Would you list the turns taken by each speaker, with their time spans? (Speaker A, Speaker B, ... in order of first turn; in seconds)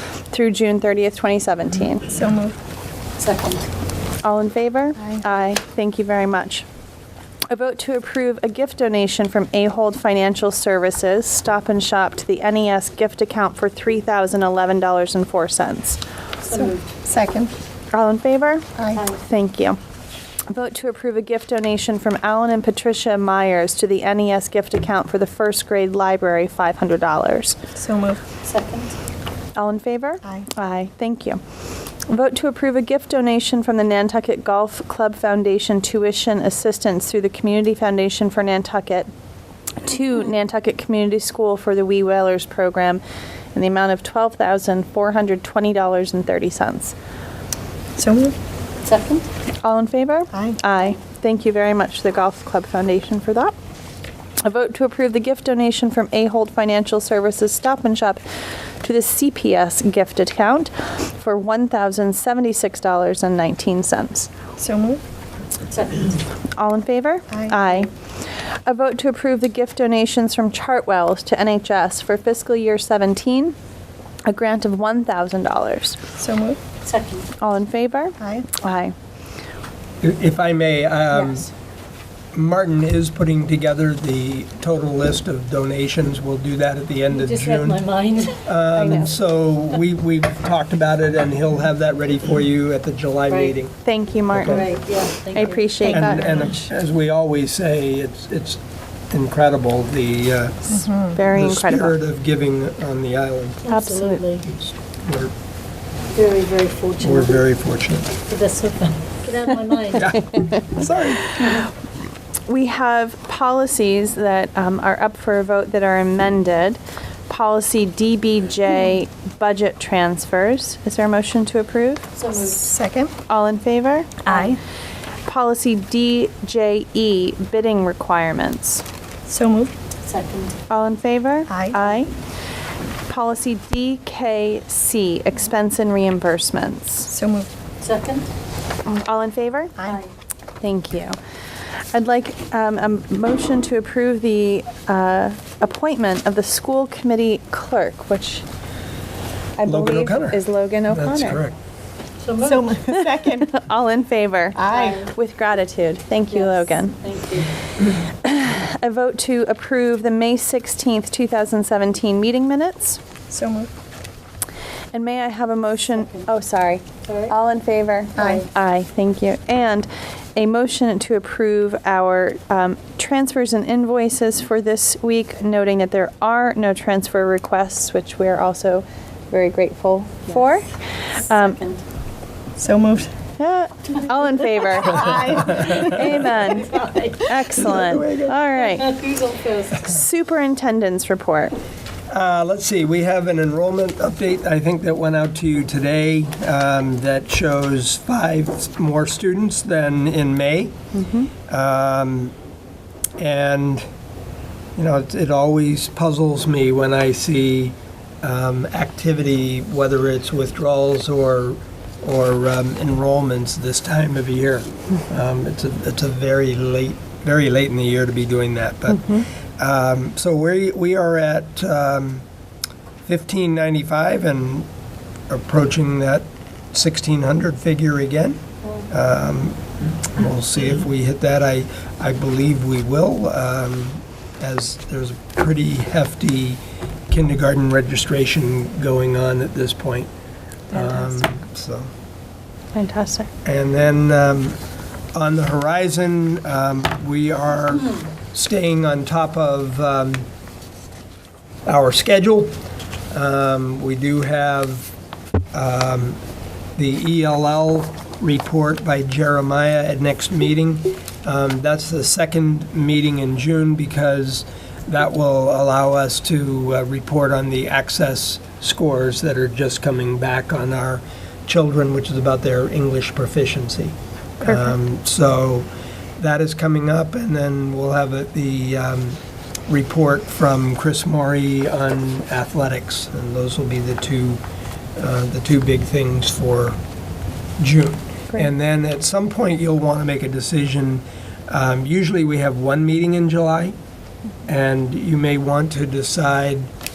Speaker A: 0.3-2.1, 4.2-6.7, 7.5-16.0, 17.9-19.8, 20.5-27.6, 29.6-31.4, 32.0-39.1, 39.8-43.0, 43.5-46.9, 49.6-53.5, 54.4-58.2, 58.8-64.3, 66.5-67.9, 68.6-73.5, 74.2-76.0, 77.4-78.9, 88.7-89.2, 93.8-94.7, 95.3-96.5, 101.1-102.0, 103.7-104.2, 110.1-111.6, 112.5-122.1, 123.3-124.4, 125.2-128.8, 130.7-132.1, 133.1-137.1, 138.8-139.9, 140.6-141.2, 141.9-148.4, 149.6-151.4, 152.9-157.0, 157.8-163.0, 164.9-181.6, 183.4-188.9, 189.8-191.5, 200.9-201.3, 240.7-241.2, 242.7-243.3
Speaker B: 2.1-2.6, 16.5-17.5, 27.7-28.2, 48.0-48.3, 64.6-65.0, 67.3-67.8, 76.2-76.6, 78.2-78.5, 95.8-96.6, 100.8-101.2, 122.4-123.1, 124.2-124.6, 129.3-129.7, 131.5-131.7, 137.1-137.5, 152.4-153.5, 154.5-155.0, 163.3-163.7, 168.2-168.4, 182.6-183.1, 184.8-186.4
Speaker C: 3.2-3.6, 16.4-16.8, 18.9-19.2, 28.4-28.9, 48.8-49.2, 65.7-66.2, 76.8-77.3, 87.1-88.5, 93.3-93.5, 94.4-95.7, 103.6-104.6, 106.1-107.4, 108.3-110.1, 122.1-122.6, 130.0-130.6, 137.8-138.3, 152.2-152.7, 154.7-155.1, 156.3-157.5, 165.9-166.2, 167.0-167.3, 181.4-181.8, 186.4-187.3, 188.5-189.8
Speaker D: 80.0-81.5, 82.3-87.8, 88.4-93.8, 94.3-94.7, 95.9-103.6, 105.0-105.3, 107.0-108.2, 109.9-111.5, 149.6-151.5, 187.5-188.3, 192.1-200.7, 201.5-202.3, 203.2-203.8, 204.8-222.2, 223.1-224.7, 225.3-240.1, 240.7-241.9, 243.4-244.6, 245.1-250.2, 251.7-252.5, 253.1-254.9, 255.5-256.2, 256.8-284.4, 285.0-286.8, 287.6-293.7, 294.5-296.7